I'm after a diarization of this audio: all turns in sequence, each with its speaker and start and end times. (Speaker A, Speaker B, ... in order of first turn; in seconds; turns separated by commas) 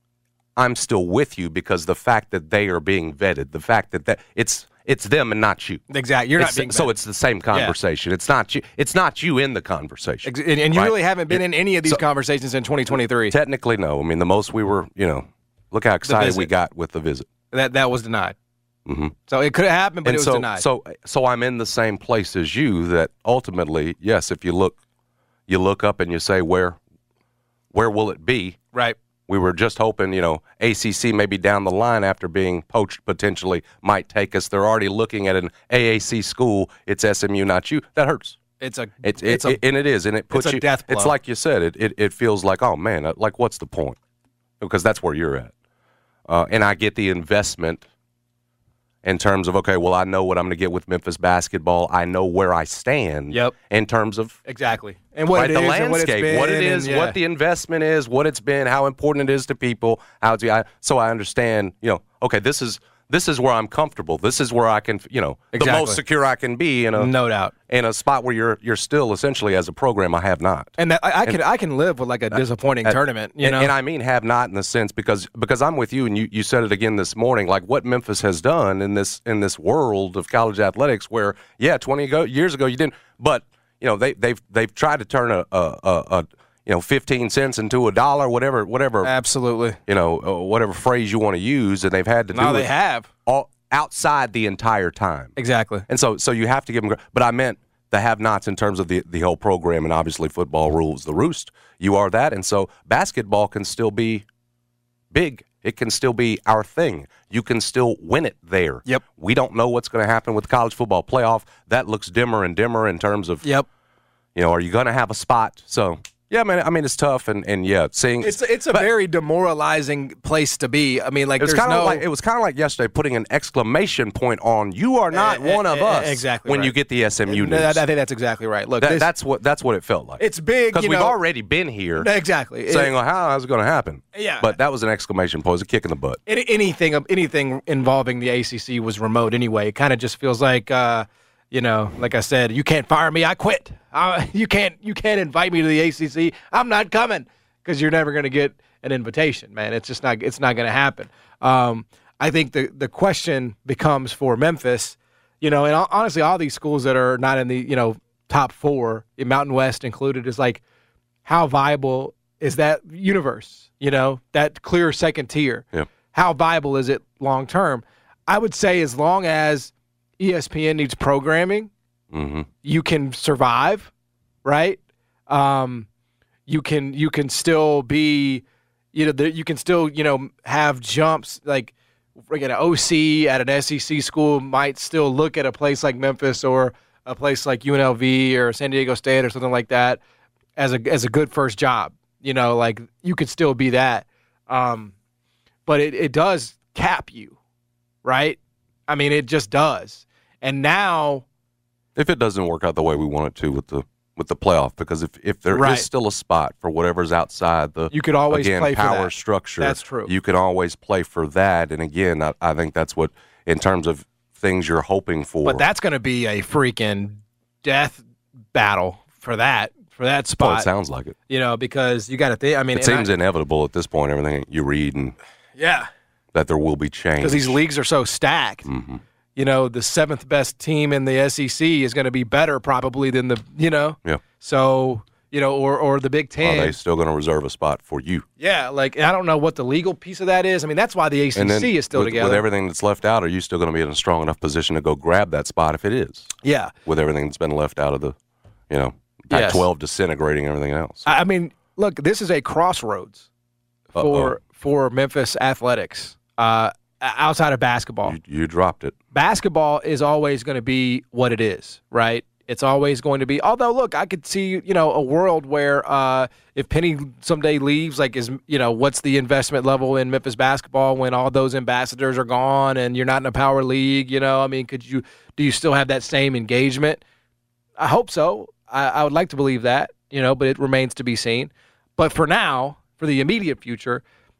Speaker A: 0.6-5.8, Speaker B: 5.9-6.9, Speaker A: 6.4-12.0, Speaker B: 10.2-13.3, Speaker A: 12.9-17.3, Speaker B: 16.1-16.5, Speaker B: 17.5-18.3, Speaker A: 18.9-19.1, Speaker B: 19.3-20.6, Speaker A: 20.0-24.8, Speaker A: 25.5-26.8, Speaker A: 27.7-28.6, Speaker A: 29.3-38.4, Speaker B: 38.6-39.6, Speaker A: 39.0-44.0, Speaker B: 40.3-41.1, Speaker A: 44.6-45.5, Speaker A: 46.3-47.8, Speaker A: 49.0-54.4, Speaker B: 54.5-57.2, Speaker A: 55.3-67.1, Speaker B: 65.5-66.0, Speaker B: 67.0-67.5, Speaker A: 67.7-70.7, Speaker B: 70.8-73.7, Speaker A: 72.3-89.1, Speaker B: 89.0-89.8, Speaker A: 89.9-92.7, Speaker B: 92.3-93.1, Speaker A: 93.2-95.3, Speaker B: 95.3-95.8, Speaker A: 95.9-104.2, Speaker A: 105.1-113.4, Speaker A: 114.3-118.9, Speaker B: 118.2-122.0, Speaker A: 121.4-127.8, Speaker B: 125.1-126.7, Speaker B: 127.3-129.1, Speaker A: 128.8-132.1, Speaker B: 130.2-131.2, Speaker B: 132.0-132.9, Speaker A: 132.7-136.2, Speaker B: 134.1-134.5, Speaker B: 136.3-160.6, Speaker B: 161.2-171.7, Speaker A: 172.1-172.5, Speaker B: 172.6-173.9, Speaker B: 174.4-175.9, Speaker B: 176.5-181.7, Speaker B: 182.3-190.0, Speaker B: 190.6-194.9, Speaker B: 195.7-197.3, Speaker B: 198.0-201.2, Speaker A: 201.9-215.6, Speaker B: 205.5-205.9, Speaker B: 207.9-210.1, Speaker B: 215.4-218.0, Speaker B: 218.5-220.7, Speaker A: 220.4-221.1, Speaker B: 221.3-223.1, Speaker A: 222.7-225.2, Speaker B: 225.6-225.9, Speaker A: 226.3-227.6, Speaker B: 227.2-228.7, Speaker A: 228.7-229.0, Speaker B: 229.3-236.8, Speaker A: 236.4-238.2, Speaker B: 238.4-242.4, Speaker A: 241.3-246.3, Speaker B: 246.4-246.7, Speaker A: 246.8-248.1, Speaker A: 248.7-251.1, Speaker B: 249.3-249.6, Speaker B: 251.1-253.3, Speaker B: 253.9-258.1, Speaker A: 253.9-254.3, Speaker A: 258.0-258.9, Speaker B: 259.1-277.0, Speaker B: 277.8-284.0